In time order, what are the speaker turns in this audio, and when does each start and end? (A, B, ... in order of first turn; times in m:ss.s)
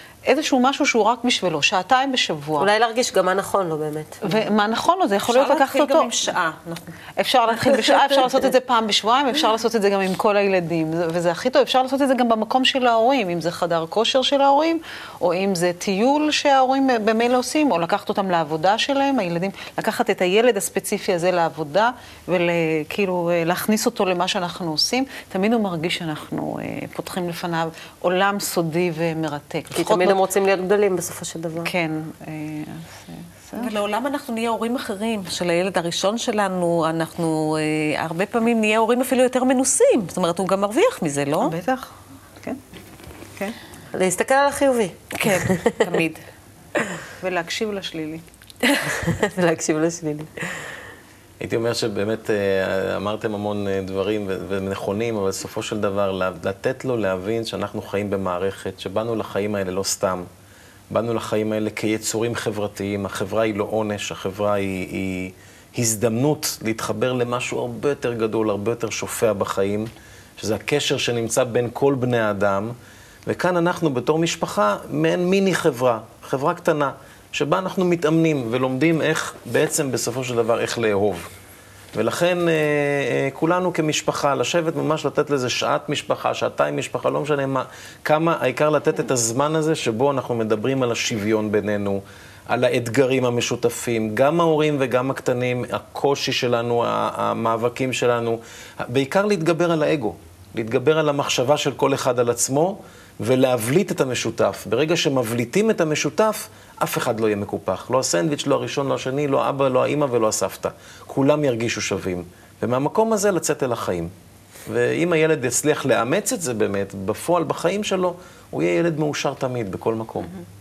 0:00.3-0:02.7 A
0:02.6-0:04.2 B
0:04.2-0:06.1 A
0:05.2-0:07.0 C
0:07.2-0:30.2 A
0:29.7-0:31.7 B
0:31.6-0:33.7 A
0:33.5-0:41.6 C
0:41.4-0:41.9 A
0:43.9-0:45.9 B
0:45.1-0:46.2 C
0:47.2-0:48.2 A
0:48.8-0:50.7 B
0:51.4-1:00.3 D
1:00.9-1:12.7 D
1:13.2-1:21.3 D
1:21.9-1:54.1 D
1:54.7-2:00.3 D